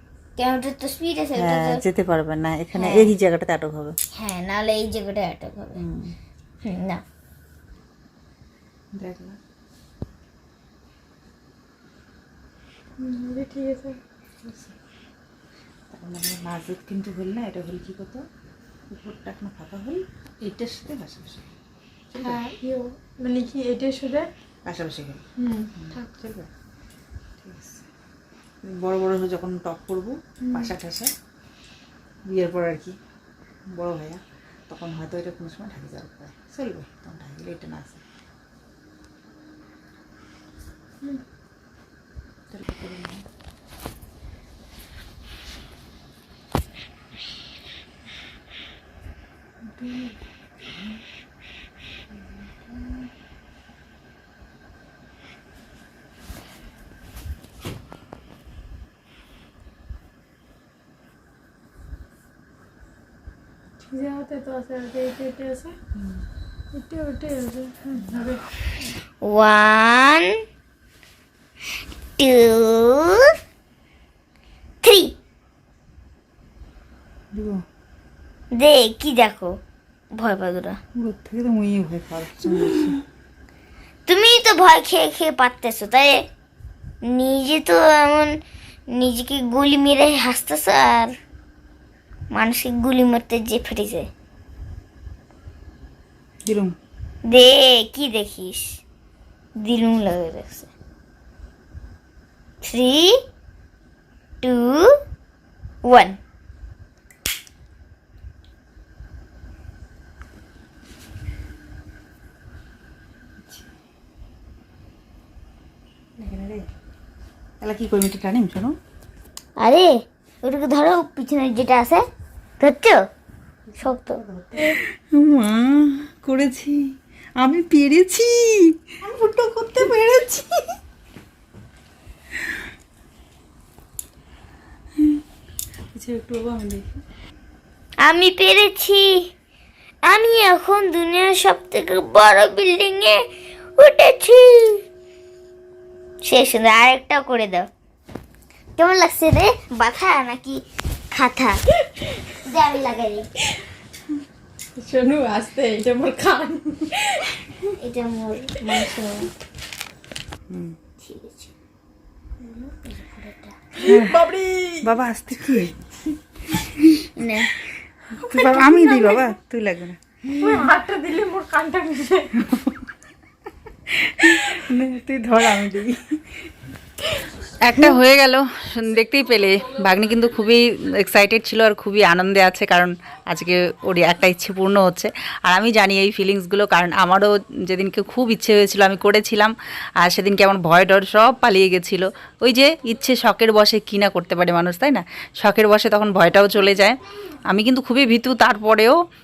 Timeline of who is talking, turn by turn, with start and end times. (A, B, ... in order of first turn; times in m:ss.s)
0:00.4-0:01.8 A
0:01.4-0:03.9 B
0:02.7-0:03.1 A
0:04.2-0:05.8 A
0:05.8-0:06.1 B
0:06.6-0:07.0 A
0:08.9-0:09.4 B
0:13.0-0:14.0 C
0:14.4-0:14.7 B
0:15.9-0:18.2 B
0:18.9-0:21.5 B
0:22.1-0:22.4 B
0:22.2-0:24.3 C
0:24.6-0:26.5 B
0:25.4-0:25.8 C
0:27.4-0:27.8 B
0:28.6-0:31.1 B
0:32.3-0:33.0 B
0:33.7-0:38.0 B
0:42.5-0:43.2 B
0:49.8-0:50.1 C
1:03.8-1:05.8 C
1:06.7-1:08.5 C
1:08.9-1:10.3 A
1:12.2-1:13.3 A
1:14.8-1:15.1 A
1:17.3-1:17.6 B
1:18.5-1:19.6 A
1:20.1-1:20.8 A
1:21.0-1:23.0 B
1:24.1-1:26.2 A
1:27.0-1:28.3 A
1:28.9-1:31.1 A
1:32.3-1:34.1 A
1:36.5-1:36.7 B
1:37.2-1:38.8 A
1:39.6-1:40.7 A
1:42.6-1:43.2 A
1:44.4-1:44.9 A
1:45.8-1:46.2 A
1:56.2-1:56.6 B
1:57.6-1:58.8 B
1:59.6-2:02.0 A
2:02.6-2:03.0 A
2:03.7-2:06.8 B
2:03.8-2:04.8 A
2:07.4-2:10.7 B
2:15.9-2:17.0 B
2:18.0-2:19.2 A
2:20.0-2:23.2 A
2:23.8-2:24.8 A
2:26.2-2:27.6 A
2:28.8-2:33.3 A
2:34.8-2:37.3 C
2:37.8-2:39.3 A
2:40.5-2:40.8 B
2:41.0-2:41.5 A
2:42.4-2:43.9 A
2:43.8-2:44.2 B
2:43.8-2:44.9 C
2:44.8-2:45.8 B
2:46.5-2:47.0 B
2:46.8-2:47.5 A
2:48.1-2:50.0 B
2:48.4-2:49.1 C
2:50.3-2:50.7 A
2:50.4-2:52.3 C
2:52.3-2:52.8 B
2:53.9-2:56.0 B
2:57.4-3:19.0 B